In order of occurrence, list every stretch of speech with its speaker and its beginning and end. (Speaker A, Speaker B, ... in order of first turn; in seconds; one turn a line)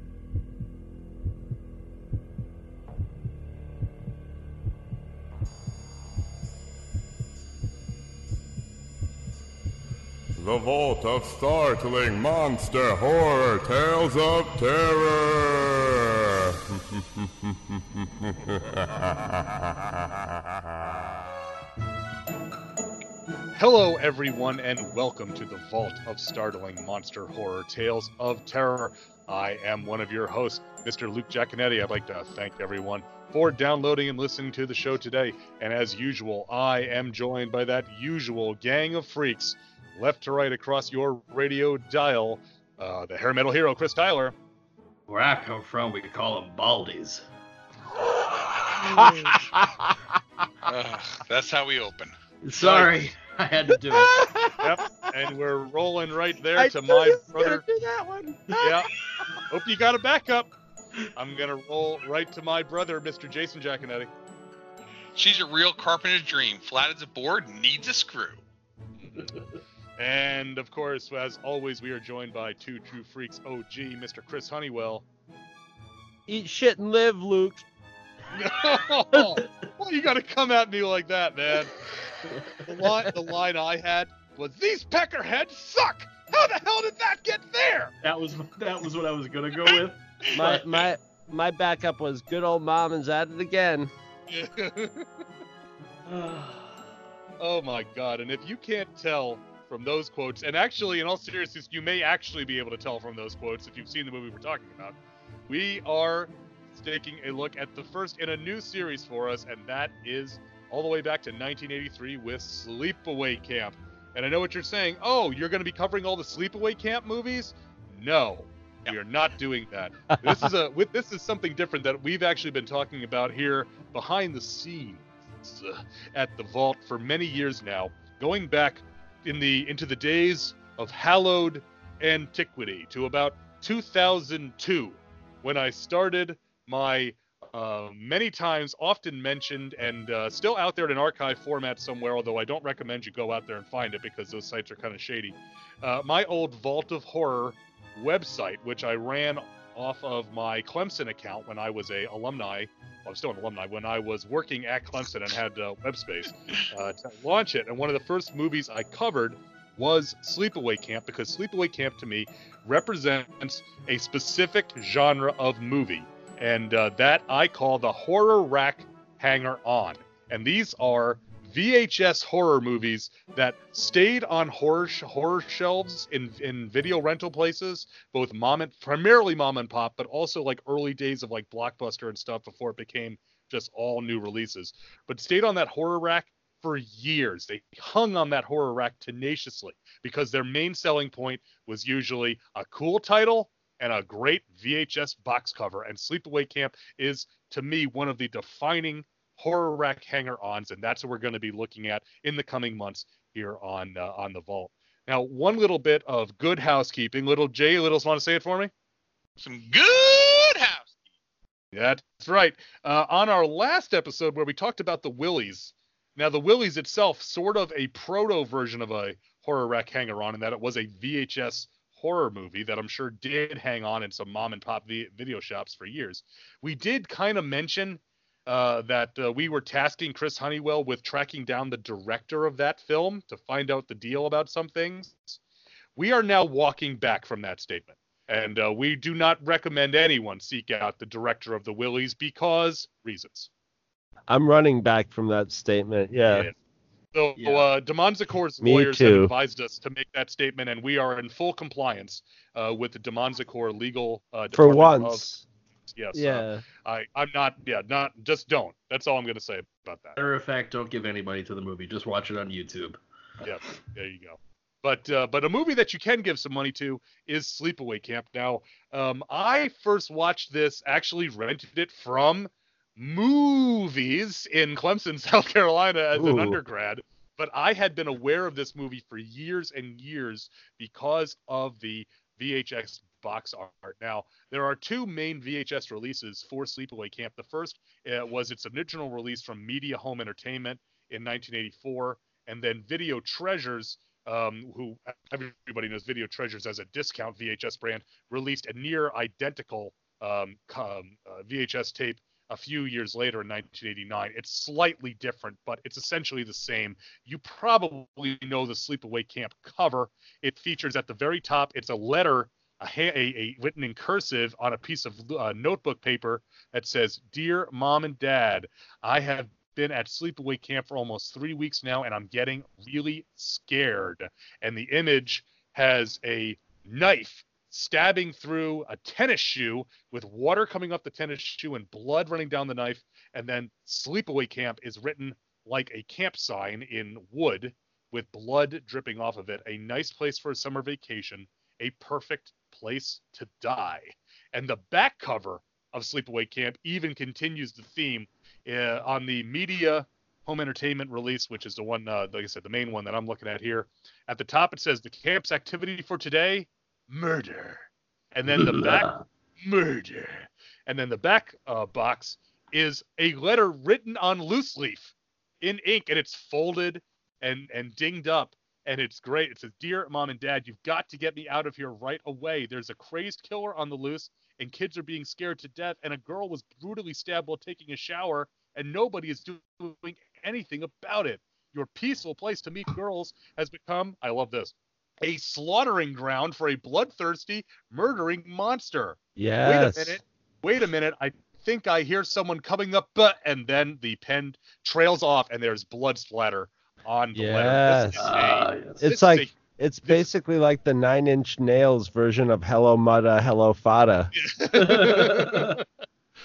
Speaker A: 10.4-19.8
Speaker B: 23.6-44.3
Speaker C: 45.1-47.2
Speaker D: 48.8-50.0
Speaker E: 50.6-52.1
Speaker C: 52.4-54.3
Speaker B: 52.6-53.1
Speaker D: 53.7-55.1
Speaker B: 54.6-57.6
Speaker D: 56.6-58.9
Speaker B: 58.6-58.9
Speaker B: 59.5-60.5
Speaker B: 61.1-64.1
Speaker E: 65.2-68.4
Speaker C: 69.1-69.5
Speaker B: 70.0-75.0
Speaker D: 76.3-77.6
Speaker B: 78.3-81.8
Speaker C: 79.2-79.4
Speaker C: 82.2-82.9
Speaker B: 82.6-88.0
Speaker C: 88.0-90.7
Speaker D: 90.3-93.9
Speaker B: 94.3-95.1
Speaker C: 96.1-96.9
Speaker B: 97.4-105.0
Speaker B: 105.5-208.7
Speaker D: 120.1-120.5
Speaker E: 209.4-210.9
Speaker B: 211.7-235.4
Speaker B: 235.9-243.5
Speaker D: 244.3-246.5
Speaker B: 246.3-246.6
Speaker B: 247.1-255.2
Speaker C: 247.4-247.7
Speaker D: 248.6-249.3
Speaker D: 254.5-255.4
Speaker B: 255.9-260.2
Speaker D: 256.1-256.6
Speaker C: 260.2-263.0
Speaker B: 263.4-359.1
Speaker C: 276.1-276.6
Speaker C: 358.5-359.2
Speaker B: 359.6-399.5
Speaker D: 389.4-390.2
Speaker D: 397.3-398.2
Speaker C: 398.1-399.0
Speaker D: 399.0-404.3
Speaker B: 404.3-405.8
Speaker C: 404.8-405.8